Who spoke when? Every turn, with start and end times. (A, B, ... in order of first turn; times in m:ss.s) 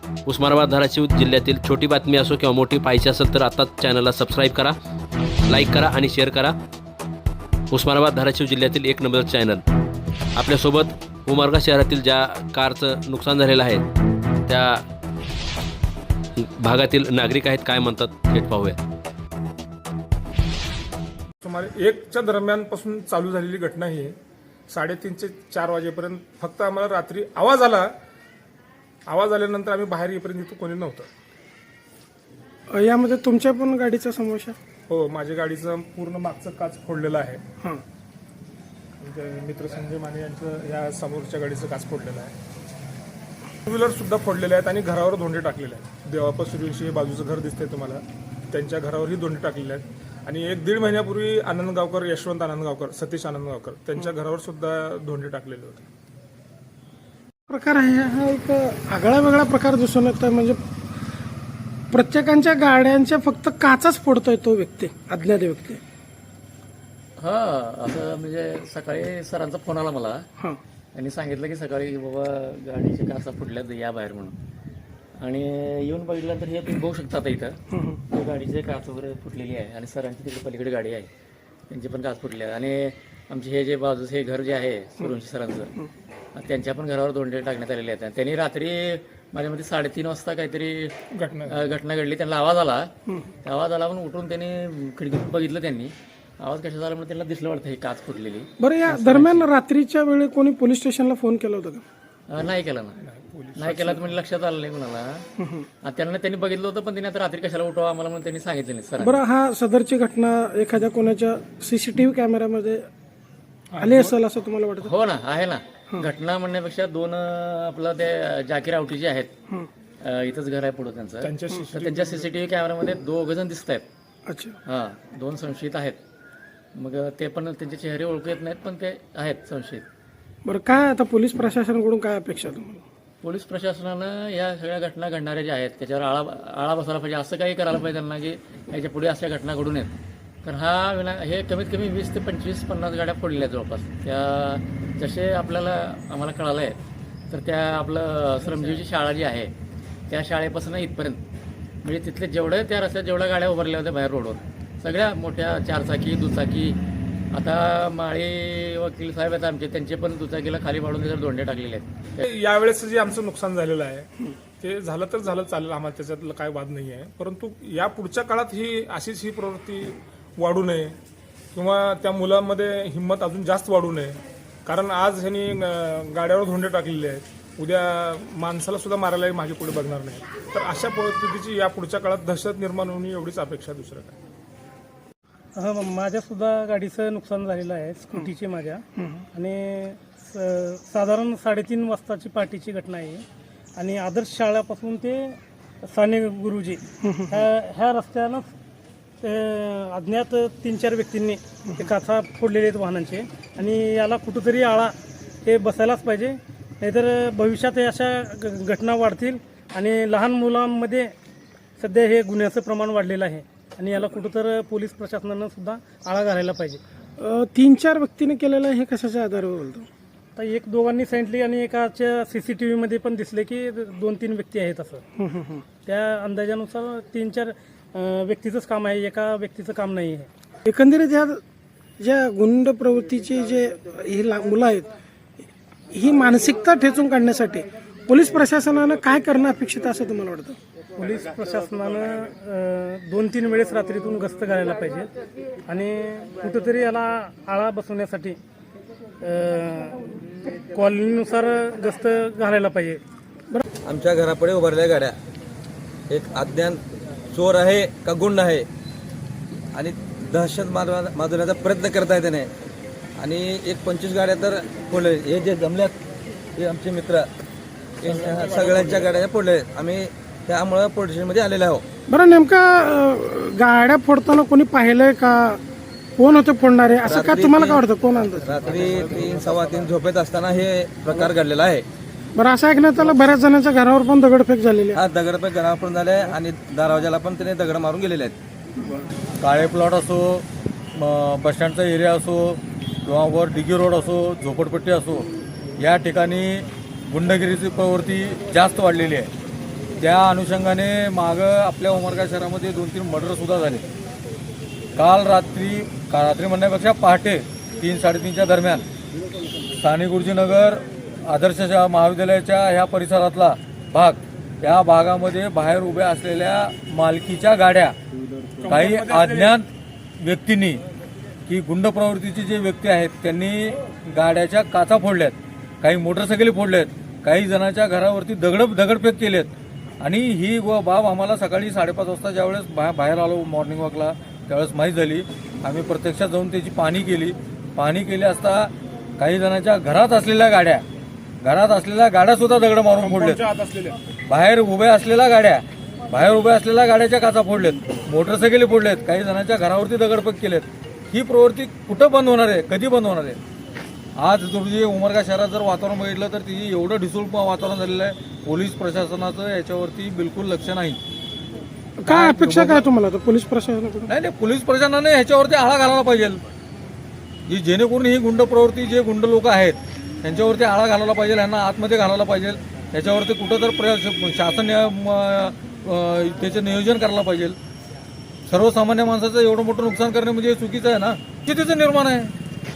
0:00.2-0:04.7 A
0:05.5-0:06.5 A
0:07.7-0:09.6 A
0:10.4-0:13.8 A
0:14.5-0:14.8 A
0:16.4-0:18.8 A
0:21.4-0:24.2 B
0:24.7-0:27.9 B
0:29.1-0:31.1 B
0:32.7-0:34.6 C
0:34.9-0:37.4 B
0:39.0-0:42.3 B
0:43.6-0:55.9 B
0:57.5-1:00.6 C
1:01.9-1:05.8 C
1:07.2-1:10.2 D
1:10.9-1:14.4 D
1:15.2-1:21.1 D
1:21.7-1:25.7 D
1:26.4-1:30.9 D
1:31.1-1:31.6 B
1:31.5-1:32.9 D
1:33.4-1:39.5 D
1:38.6-1:41.8 C
1:42.3-1:43.0 D
1:43.0-1:44.0 B
1:43.6-1:45.2 D
1:45.8-1:49.2 D
1:49.0-1:52.9 C
1:53.7-1:54.2 B
1:53.8-1:54.9 C
1:54.8-1:59.3 D
2:00.0-2:03.8 D
2:01.2-2:02.3 B
2:04.2-2:04.6 C
2:04.6-2:06.0 D
2:06.8-2:09.8 D
2:10.4-2:12.8 C
2:13.2-2:19.9 D
2:20.4-2:26.8 D
2:27.3-2:29.5 D
2:30.1-2:31.2 D
2:31.8-2:36.8 D
2:37.3-2:42.2 D
2:42.2-2:44.1 B
2:44.6-2:51.0 B
2:51.5-3:04.2 B
3:05.6-3:08.8 E
3:09.3-3:13.2 E
3:13.8-3:18.5 E
3:17.0-3:17.4 C
3:19.2-3:24.9 E
3:25.4-3:31.1 E
3:31.8-3:36.8 E
3:37.2-3:39.9 C
3:40.4-3:45.0 E
3:45.2-3:45.6 C
3:45.8-3:50.3 E
3:50.6-3:51.4 C
3:52.0-3:54.9 C
3:55.9-4:00.6 C
4:01.0-4:05.1 E
4:05.7-4:08.4 E
4:09.2-4:10.0 E
4:10.6-4:13.0 E
4:13.8-4:15.1 F
4:16.1-4:16.8 F
4:17.3-4:18.7 F
4:19.7-4:22.5 F
4:23.2-4:26.0 F
4:26.6-4:27.3 F
4:28.0-4:31.8 F
4:28.0-4:29.1 B
4:32.1-4:35.6 C
4:36.2-4:38.5 C
4:37.0-4:37.8 F
4:38.4-4:41.8 F
4:42.3-4:45.0 C
4:44.9-4:48.3 F
4:49.4-4:55.3 G
4:55.8-4:59.3 G
5:00.0-5:03.8 G
5:05.0-5:08.8 G
5:09.8-5:17.9 G
5:18.6-5:19.5 B
5:18.7-5:19.7 G
5:20.2-5:20.8 G
5:21.5-5:40.8 G
5:41.4-5:43.4 G
5:43.0-5:44.0 B
5:44.3-5:53.4 G
5:54.2-6:01.0 G
6:02.0-6:04.1 C
6:02.1-6:02.8 G
6:04.1-6:06.4 G
6:07.4-6:17.6 G
6:18.5-6:22.3 G